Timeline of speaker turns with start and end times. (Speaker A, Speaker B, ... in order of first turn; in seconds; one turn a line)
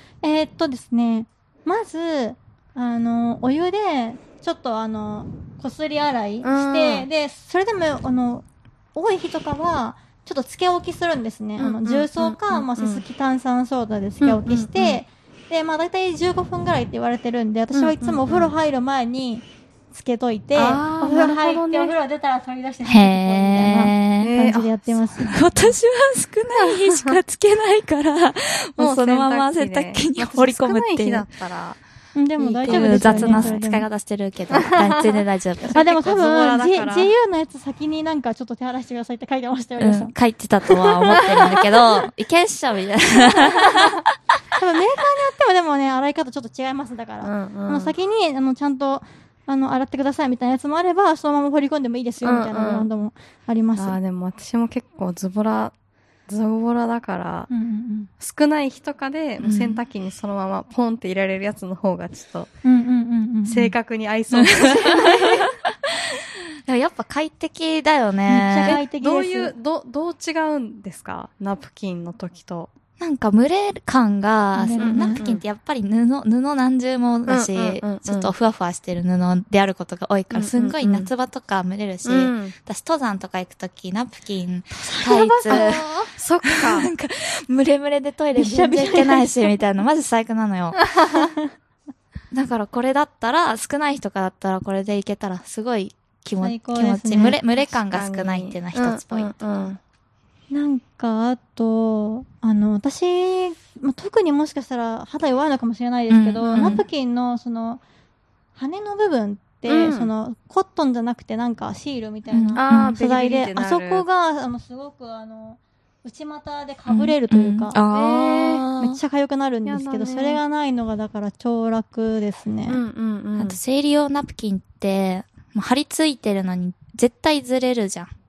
Speaker A: 0.2-25.7
Speaker B: 6.4-7.1
Speaker B: 11.6-13.0
Speaker B: 14.2-15.0
Speaker B: 17.7-18.5
Speaker B: 20.5-21.9
Speaker C: 22.8-24.3
Speaker B: 24.2-25.3
Speaker C: 25.2-31.3
Speaker B: 26.6-27.2
Speaker B: 28.8-31.8
Speaker A: 32.1-33.9
Speaker B: 32.4-33.6
Speaker C: 32.6-35.7
Speaker B: 34.5-37.1
Speaker A: 35.7-40.1
Speaker C: 39.8-43.9
Speaker A: 41.1-42.1
Speaker A: 43.2-43.7
Speaker A: 44.5-54.0
Speaker B: 47.2-47.9
Speaker B: 52.2-52.9
Speaker B: 53.8-55.7
Speaker B: 56.3-57.5
Speaker A: 57.5-58.1
Speaker B: 58.2-62.5
Speaker C: 59.4-59.8
Speaker A: 62.6-63.7
Speaker B: 63.4-65.5
Speaker C: 66.7-68.8
Speaker A: 68.3-69.5
Speaker B: 68.6-72.7
Speaker C: 73.0-85.9
Speaker A: 74.5-75.2
Speaker B: 74.8-75.4
Speaker B: 77.3-78.3
Speaker B: 80.3-81.1
Speaker B: 82.0-82.5
Speaker A: 84.8-86.1
Speaker B: 85.5-86.9
Speaker C: 86.4-90.8
Speaker A: 88.3-89.6
Speaker B: 90.8-91.3
Speaker A: 91.1-91.5
Speaker C: 92.3-99.7
Speaker A: 96.4-97.4
Speaker B: 97.6-99.8
Speaker A: 100.5-107.8
Speaker C: 106.1-106.8
Speaker B: 106.4-106.8
Speaker A: 108.5-117.8
Speaker B: 109.6-110.1
Speaker C: 112.3-113.0
Speaker B: 112.5-114.0
Speaker C: 116.9-119.0
Speaker B: 117.9-118.6
Speaker A: 118.6-122.8
Speaker B: 119.7-120.4
Speaker B: 122.7-123.6
Speaker C: 123.4-128.1